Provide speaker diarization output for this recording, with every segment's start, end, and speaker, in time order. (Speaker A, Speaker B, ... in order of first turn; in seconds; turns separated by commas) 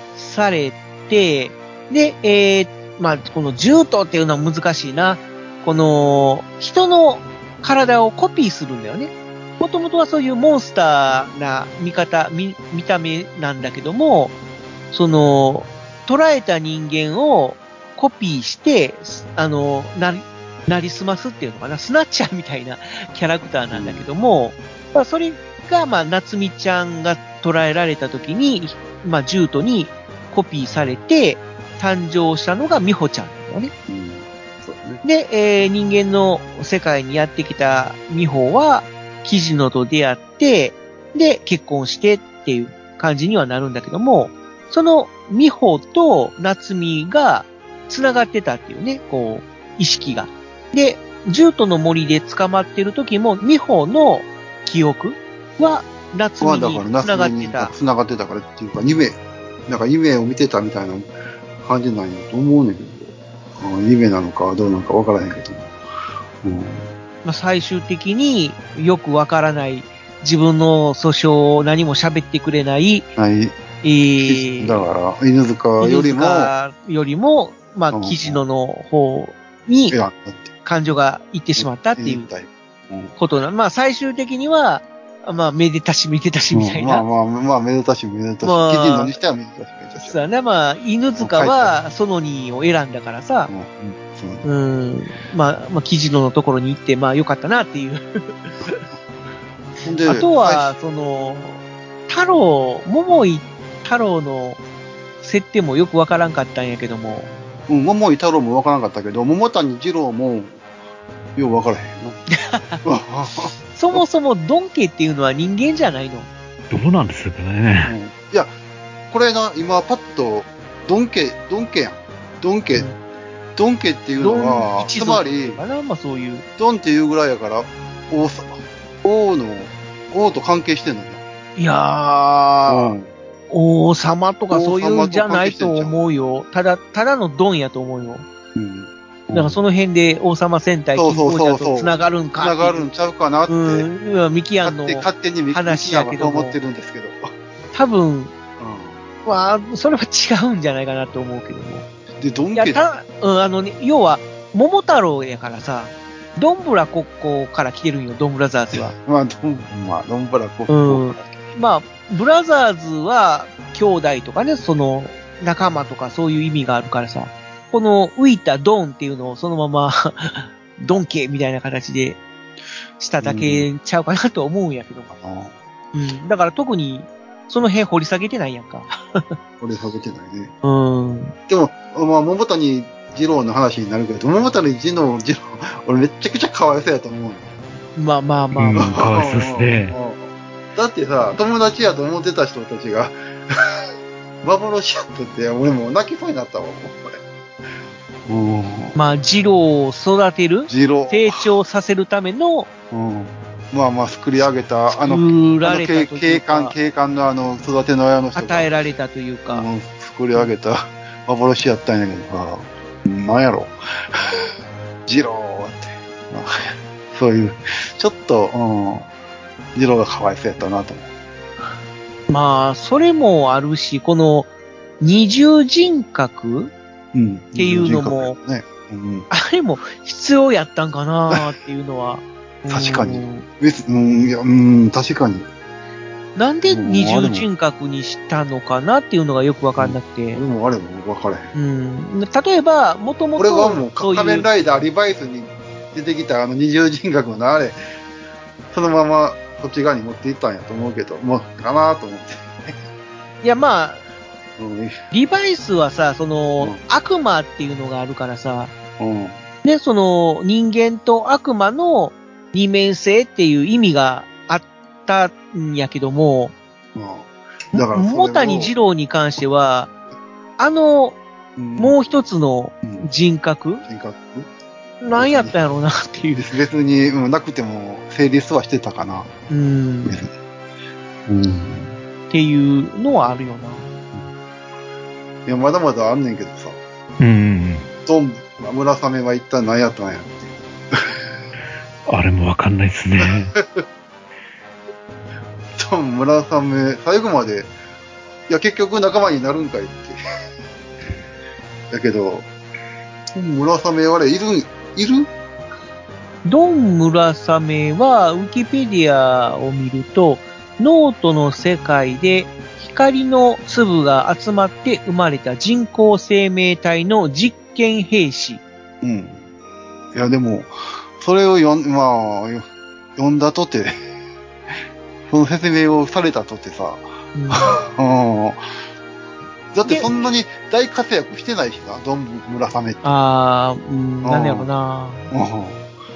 Speaker A: 0.1-14.3, Speaker A: 14.9-33.7, Speaker B: 23.7-24.1, Speaker B: 33.9-35.0, Speaker A: 35.0-57.7, Speaker B: 56.4-61.1, Speaker B: 61.6-65.7, Speaker B: 66.4-66.9, Speaker A: 67.2-73.1, Speaker B: 73.2-73.6, Speaker A: 73.8-74.9, Speaker B: 74.2-76.5, Speaker A: 75.8-80.0, Speaker B: 77.9-78.4, Speaker B: 79.9-80.5, Speaker A: 80.7-82.3, Speaker B: 81.6-83.2, Speaker A: 83.2-87.1, Speaker B: 86.5-90.2, Speaker A: 88.4-89.2, Speaker A: 90.0-93.5, Speaker B: 91.2-91.8, Speaker B: 93.5-94.5, Speaker A: 94.4-98.8, Speaker B: 99.8-100.7, Speaker A: 100.0-104.6, Speaker A: 105.2-107.3, Speaker B: 107.7-110.6, Speaker B: 111.4-112.2, Speaker A: 112.3-112.8, Speaker B: 112.8-114.0, Speaker A: 113.7-116.3, Speaker C: 116.7-117.9, Speaker B: 117.8-118.5, Speaker B: 119.1-122.9, Speaker B: 123.6-125.6, Speaker A: 124.2-126.5, Speaker B: 126.6-131.2, Speaker A: 131.6-133.0, Speaker B: 132.7-133.1, Speaker A: 133.5-138.3, Speaker B: 134.5-136.0, Speaker B: 138.6-139.6, Speaker A: 139.3-142.9, Speaker B: 140.9-143.9, Speaker A: 143.5-146.6, Speaker B: 144.6-147.3, Speaker A: 147.7-148.3, Speaker B: 148.6-149.0, Speaker A: 149.2-151.9, Speaker B: 152.2-152.9, Speaker A: 152.6-158.9, Speaker B: 158.7-161.6, Speaker A: 160.7-172.2, Speaker A: 173.0-175.1, Speaker B: 173.2-173.7, Speaker B: 175.1-175.6, Speaker A: 175.9-179.3, Speaker B: 179.6-180.5, Speaker A: 180.6-181.3, Speaker B: 181.5-187.5, Speaker A: 188.0-189.0, Speaker C: 188.6-189.9, Speaker B: 188.8-193.9, Speaker B: 194.4-197.2, Speaker B: 198.3-199.0, Speaker A: 198.9-202.7, Speaker B: 200.7-201.5, Speaker B: 202.9-208.7, Speaker A: 204.9-206.8, Speaker A: 208.4-209.7, Speaker B: 209.5-214.5, Speaker B: 215.1-219.1, Speaker B: 219.8-221.1, Speaker A: 222.3-226.7, Speaker B: 227.1-229.3, Speaker A: 227.6-228.4, Speaker A: 229.3-233.5, Speaker B: 232.7-235.5, Speaker A: 236.4-240.4, Speaker B: 236.7-237.5, Speaker B: 239.8-241.5, Speaker A: 241.6-244.5, Speaker B: 243.4-247.8, Speaker B: 248.7-252.8, Speaker A: 253.4-254.0, Speaker B: 254.6-255.0, Speaker A: 255.1-258.7, Speaker B: 259.0-259.4, Speaker A: 259.6-266.6, Speaker B: 266.9-268.7, Speaker A: 267.7-269.9, Speaker A: 270.6-271.2, Speaker B: 271.6-272.0, Speaker A: 271.8-273.8, Speaker B: 273.8-274.5, Speaker A: 275.0-276.5, Speaker B: 275.1-275.6, Speaker B: 276.4-279.3, Speaker A: 279.5-280.2, Speaker B: 280.1-280.3, Speaker B: 281.3-281.9, Speaker A: 282.3-283.9, Speaker B: 285.5-286.8, Speaker C: 287.2-287.9, Speaker B: 288.1-291.2, Speaker C: 292.1-293.6, Speaker B: 293.2-293.8, Speaker B: 295.7-297.7, Speaker B: 298.5-300.2, Speaker B: 301.9-302.5, Speaker B: 303.3-305.3, Speaker A: 306.4-318.6, Speaker B: 319.0-319.4, Speaker B: 320.1-322.6, Speaker B: 323.2-323.9, Speaker B: 325.3-328.6, Speaker A: 327.3-327.8, Speaker B: 329.7-333.1, Speaker A: 333.0-335.3, Speaker B: 334.2-334.7, Speaker B: 335.3-335.8